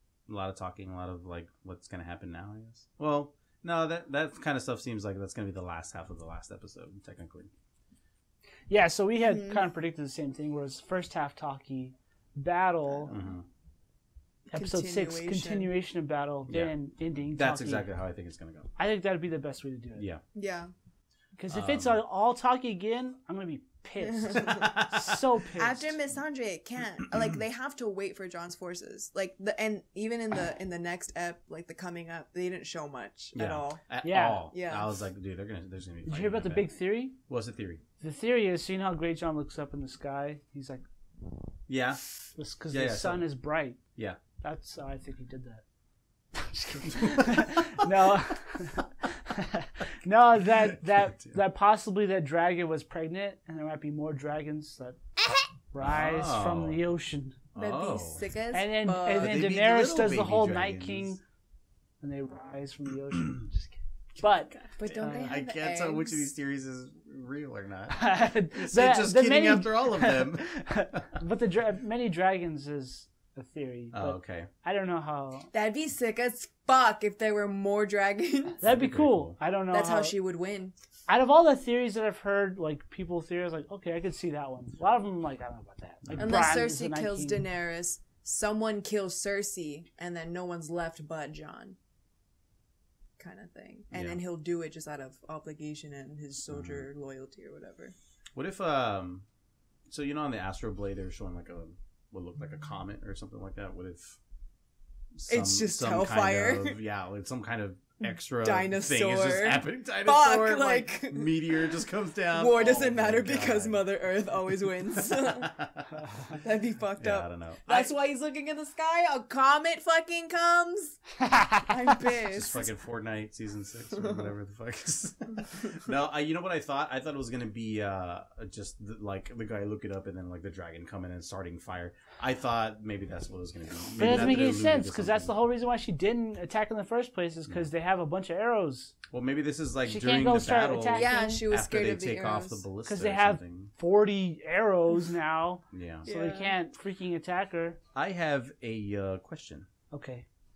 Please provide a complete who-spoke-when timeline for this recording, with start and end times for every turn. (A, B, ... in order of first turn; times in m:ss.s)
0:00.3-0:07.5 A
0:08.7-0:13.2 B
0:09.2-0:09.6 C
0:13.1-0:13.4 A
0:14.5-0:15.7 C
0:14.5-0:17.9 B
0:16.5-0:16.8 A
0:17.3-0:18.7 A
0:18.8-0:20.1 B
0:20.0-0:20.2 A
0:20.3-0:20.7 C
0:21.4-0:26.0 B
0:21.5-0:22.0 A
0:24.0-0:24.9 C
0:24.6-0:25.0 A
0:25.6-0:33.9 C
0:33.3-0:36.7 A
0:34.0-0:34.4 B
0:34.5-0:34.9 C
0:36.1-0:37.2 B
0:37.2-0:37.8 A
0:38.0-0:40.8 B
0:41.7-0:42.0 A
0:42.4-0:43.8 B
0:42.7-0:43.3 A
0:44.4-0:45.6 B
0:46.3-0:55.0 B
0:46.9-0:47.5 A
0:50.8-0:51.4 A
0:55.2-0:55.5 C
0:55.7-0:57.4 B
0:55.8-0:56.8 A
0:57.5-0:58.2 A
0:57.6-0:59.4 C
0:58.5-1:01.2 B
0:59.1-1:01.2 A
1:02.0-1:05.4 B
1:04.2-1:11.1 A
1:04.8-1:06.2 C
1:07.9-1:15.5 B
1:13.9-1:14.5 A
1:15.5-1:18.6 C
1:18.6-1:19.4 A
1:18.6-1:20.1 B
1:19.7-1:20.7 C
1:21.1-1:27.4 B
1:26.0-1:26.7 A
1:26.2-1:31.8 C
1:33.2-1:38.0 C
1:33.9-1:34.2 A
1:36.5-1:36.9 A
1:38.4-1:39.2 A
1:39.9-1:44.2 A
1:45.2-1:53.9 A
1:45.3-1:46.8 C
1:48.4-1:51.7 C
1:52.3-1:55.6 C
1:55.0-1:56.0 A
1:56.3-2:02.7 C
1:57.0-1:57.9 A
2:01.3-2:01.5 B
2:02.3-2:15.3 A
2:04.0-2:04.3 C
2:14.0-2:19.0 B
2:19.1-2:23.7 A
2:19.9-2:21.4 B
2:20.9-2:22.6 C
2:22.8-2:27.8 B
2:25.7-2:26.1 A
2:26.1-2:26.6 C
2:27.9-2:29.7 A
2:29.9-2:30.3 B